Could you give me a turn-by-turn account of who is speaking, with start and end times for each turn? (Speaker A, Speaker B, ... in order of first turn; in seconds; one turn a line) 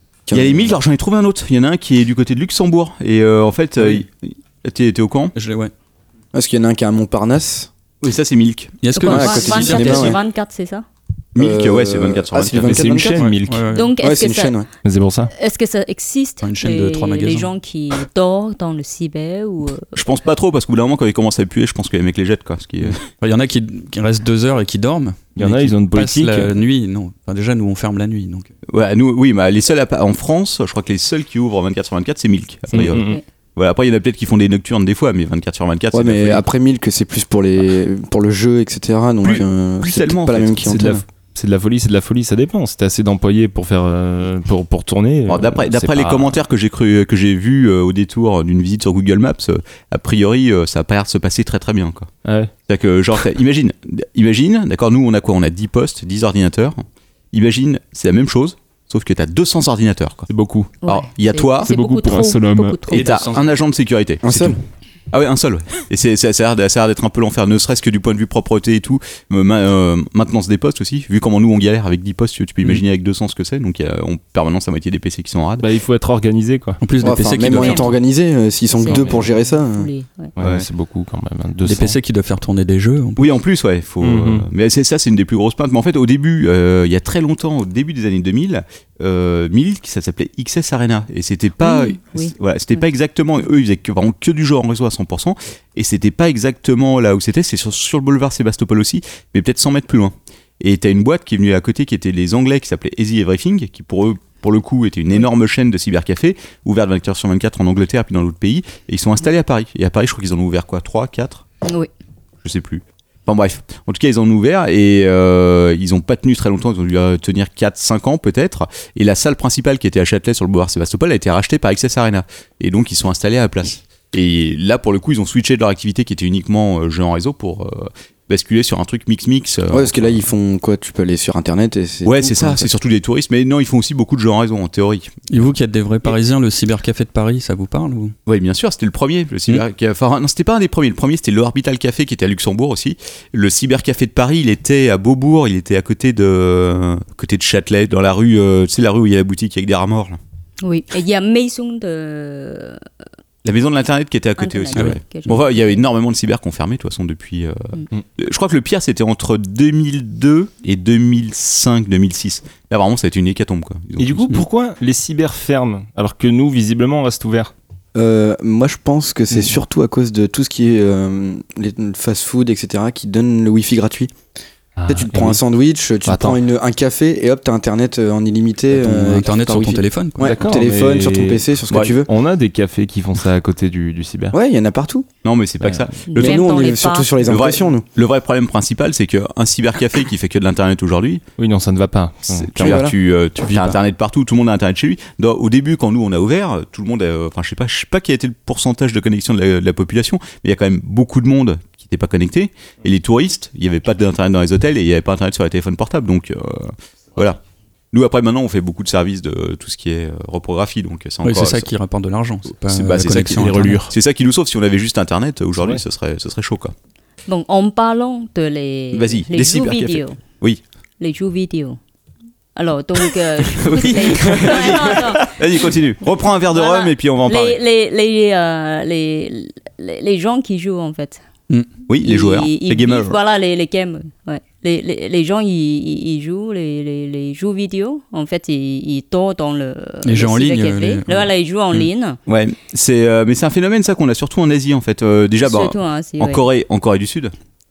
Speaker A: 0.3-0.8
Speaker B: 0.3-5.3
Speaker C: 5.3-5.7
Speaker A: 6.3-7.7
Speaker B: 8.0-8.8
Speaker C: 8.8-10.2
Speaker D: 8.9-10.8
Speaker A: 9.0-10.2
Speaker B: 11.3-13.0
Speaker A: 11.3-13.3
Speaker E: 12.6-13.7
Speaker C: 13.1-13.9
Speaker D: 13.7-14.6
Speaker A: 14.0-14.7
Speaker E: 14.8-15.3
Speaker D: 15.3-19.9
Speaker C: 16.4-17.5
Speaker B: 19.9-23.0
Speaker C: 23.2-28.5
Speaker E: 25.4-26.6
Speaker B: 28.7-33.0
Speaker E: 32.7-33.2
Speaker D: 32.8-33.2
Speaker B: 33.5-36.4
Speaker A: 35.9-41.0
Speaker B: 39.2-40.8
Speaker E: 40.6-46.4
Speaker B: 45.3-52.1
Speaker E: 52.2-52.5
Speaker B: 52.7-60.3
Speaker E: 60.3-60.7
Speaker D: 60.8-63.4
Speaker B: 60.9-61.7
Speaker E: 61.6-62.8
Speaker C: 62.9-63.4
Speaker B: 62.9-64.5
Speaker A: 64.2-64.6
Speaker B: 65.1-75.7
Speaker E: 75.6-76.8
Speaker C: 76.8-77.9
Speaker A: 77.0-79.9
Speaker D: 77.5-77.9
Speaker D: 78.7-80.3
Speaker E: 78.9-79.2
Speaker E: 80.4-82.0
Speaker B: 80.4-80.7
Speaker C: 81.6-83.3
Speaker B: 83.2-111.4
Speaker E: 84.0-84.5
Speaker D: 91.6-92.8
Speaker D: 111.6-111.9
Speaker B: 112.4-130.2
Speaker A: 129.7-132.7
Speaker B: 132.0-135.1
Speaker C: 135.3-138.1
Speaker B: 138.2-150.2
Speaker D: 150.6-152.8
Speaker B: 153.4-164.4
Speaker D: 154.4-155.8
Speaker C: 154.7-155.0
Speaker E: 164.0-167.5
Speaker A: 167.9-174.1
Speaker E: 174.8-175.4
Speaker A: 174.9-182.1
Speaker E: 176.0-176.4
Speaker C: 178.7-180.3
Speaker E: 180.2-184.4
Speaker A: 184.3-185.1
Speaker B: 185.2-186.4
Speaker E: 185.6-185.9
Speaker D: 186.1-187.3
Speaker A: 186.1-187.8
Speaker B: 187.2-191.2
Speaker E: 191.4-192.8
Speaker B: 192.3-207.4
Speaker A: 192.6-192.9
Speaker C: 193.4-193.8
Speaker B: 207.9-211.7
Speaker C: 211.2-213.8
Speaker B: 212.7-216.7
Speaker E: 213.1-213.9
Speaker D: 217.3-220.2
Speaker B: 218.9-220.6
Speaker D: 221.0-221.8
Speaker D: 222.6-225.4
Speaker B: 223.4-227.6
Speaker D: 226.5-231.2
Speaker B: 231.9-233.2
Speaker D: 232.0-242.2
Speaker C: 240.0-241.8
Speaker B: 242.3-247.3
Speaker D: 245.4-246.4